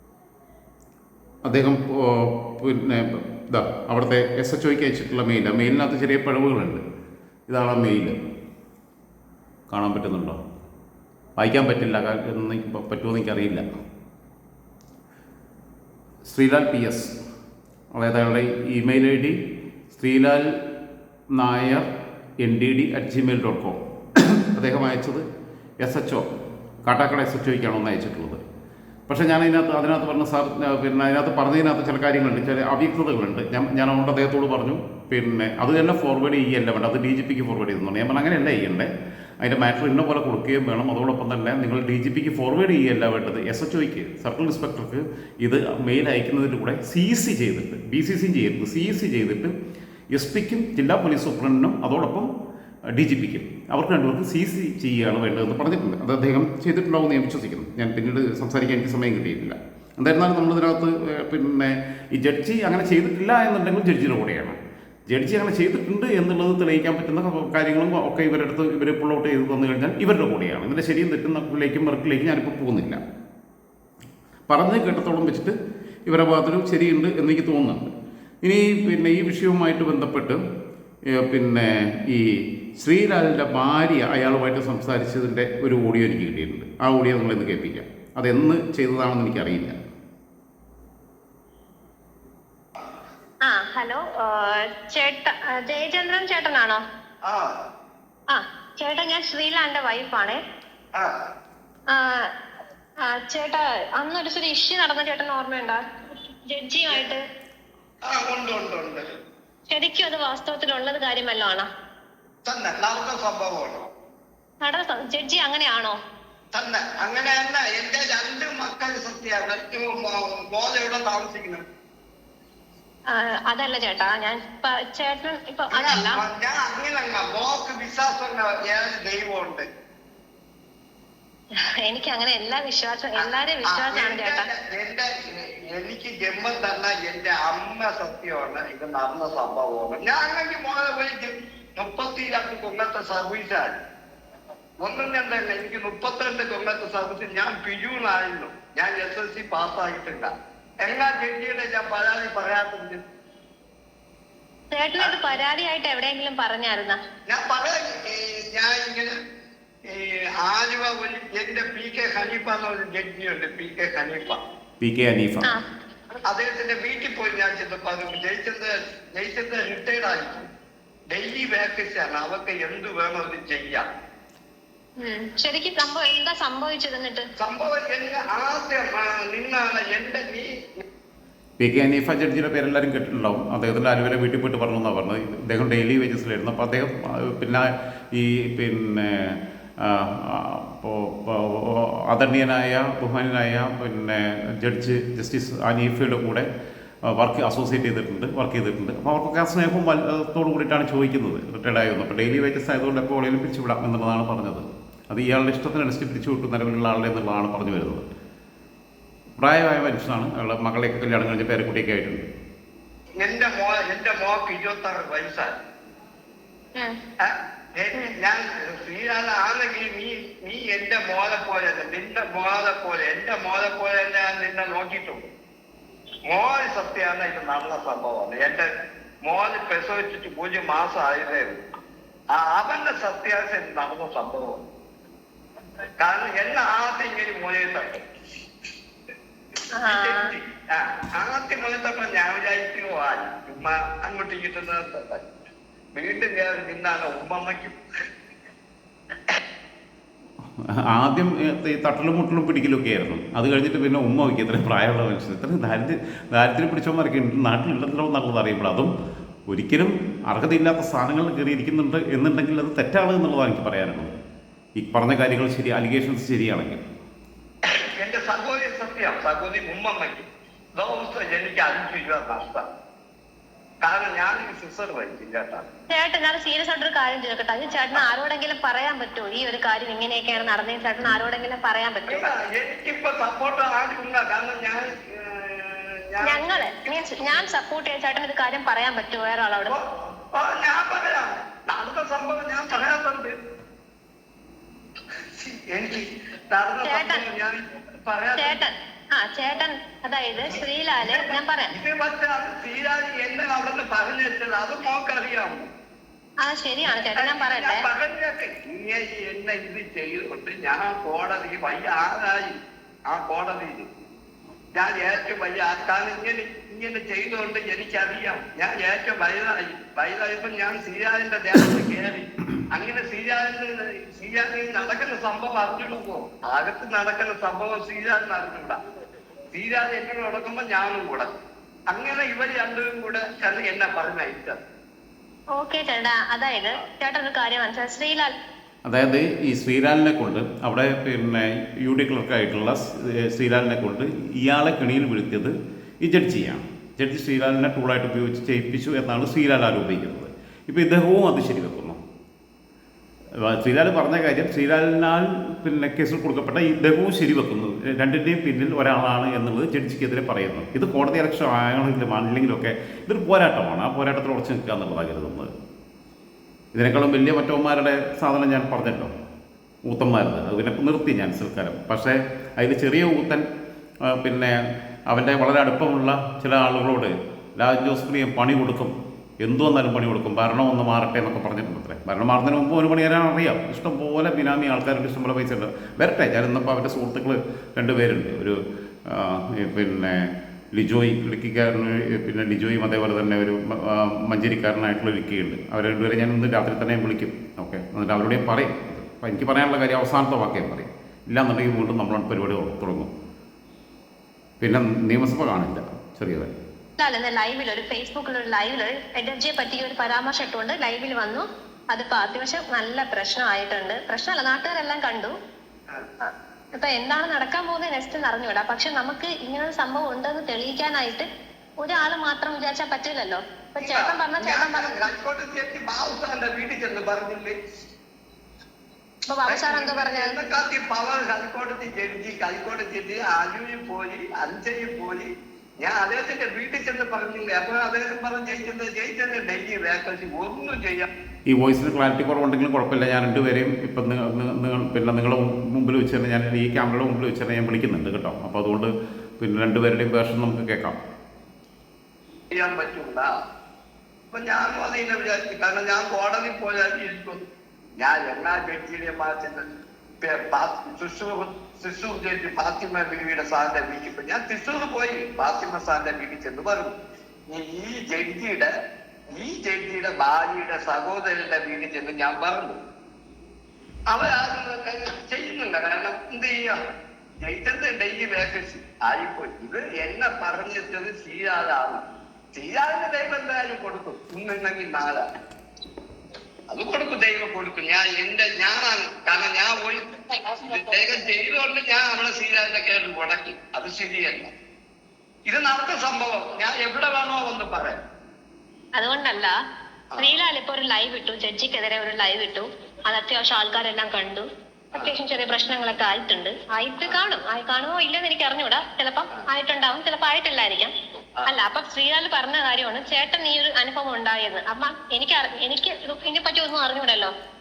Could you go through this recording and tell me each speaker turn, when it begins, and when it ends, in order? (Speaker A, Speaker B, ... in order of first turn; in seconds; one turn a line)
Speaker A: 1.4-6.8
Speaker A: 7.5-8.2
Speaker A: 9.7-10.4
Speaker A: 11.4-13.7
Speaker A: 16.3-17.1
Speaker A: 17.9-19.4
Speaker A: 19.9-20.6
Speaker A: 21.3-21.9
Speaker A: 22.4-25.2
Speaker A: 25.8-26.3
Speaker A: 26.8-28.4
Speaker A: 29.1-49.5
Speaker A: 50.1-52.3
Speaker A: 52.9-73.0
Speaker A: 74.5-75.5
Speaker A: 76.1-77.9
Speaker A: 78.4-80.4
Speaker A: 81.1-89.8
Speaker B: 93.4-96.8
Speaker C: 97.2-97.6
Speaker B: 98.3-100.4
Speaker C: 100.9-101.3
Speaker B: 101.9-102.3
Speaker B: 103.0-107.2
Speaker C: 108.0-109.1
Speaker B: 109.7-111.7
Speaker C: 112.4-113.9
Speaker B: 114.6-116.0
Speaker C: 116.5-121.7
Speaker B: 123.1-126.2
Speaker C: 125.7-129.7
Speaker B: 131.5-134.5
Speaker C: 133.2-143.8
Speaker C: 144.8-153.0
Speaker B: 154.7-157.0
Speaker C: 155.0-155.4
Speaker C: 157.3-159.1
Speaker C: 159.8-164.4
Speaker A: 164.8-165.5
Speaker C: 166.3-170.5
Speaker C: 171.1-173.9
Speaker B: 175.0-177.3
Speaker C: 177.4-180.8
Speaker A: 181.6-196.5
Speaker A: 197.1-208.1
Speaker A: 209.4-212.3
Speaker C: 213.2-215.6
Speaker C: 217.2-225.3
Speaker C: 226.3-228.7
Speaker C: 229.2-231.6
Speaker C: 232.3-234.7
Speaker C: 236.0-238.0
Speaker B: 239.8-240.3
Speaker C: 239.8-245.3
Speaker C: 245.9-247.8
Speaker A: 250.6-258.9
Speaker A: 259.5-264.1
Speaker A: 264.8-266.8
Speaker C: 267.6-272.6
Speaker C: 273.8-275.7
Speaker B: 275.9-282.3
Speaker C: 282.1-287.4
Speaker B: 286.2-289.8
Speaker C: 289.6-293.4
Speaker C: 295.3-298.6
Speaker B: 296.9-297.2
Speaker B: 298.4-301.7
Speaker C: 300.4-305.7
Speaker B: 306.4-307.9
Speaker C: 307.1-313.9
Speaker C: 314.7-328.8
Speaker C: 329.5-331.4
Speaker C: 331.9-334.6
Speaker B: 335.5-338.3
Speaker A: 338.9-352.0
Speaker A: 353.4-365.5
Speaker A: 366.7-369.1
Speaker A: 369.8-373.4
Speaker A: 374.0-403.1
Speaker A: 404.6-406.6
Speaker B: 407.0-415.4
Speaker B: 416.2-421.3
Speaker B: 421.8-425.1
Speaker C: 423.8-427.6
Speaker B: 429.3-430.3
Speaker C: 429.5-435.3
Speaker C: 435.8-441.1
Speaker A: 441.5-451.0
Speaker C: 452.5-453.3
Speaker C: 454.3-457.5
Speaker C: 458.0-467.0
Speaker C: 467.5-468.7
Speaker C: 469.3-472.8
Speaker C: 474.1-476.8
Speaker C: 477.4-485.2
Speaker C: 486.7-494.5
Speaker C: 495.5-498.0
Speaker B: 498.9-499.5
Speaker B: 500.2-510.9
Speaker B: 511.4-517.3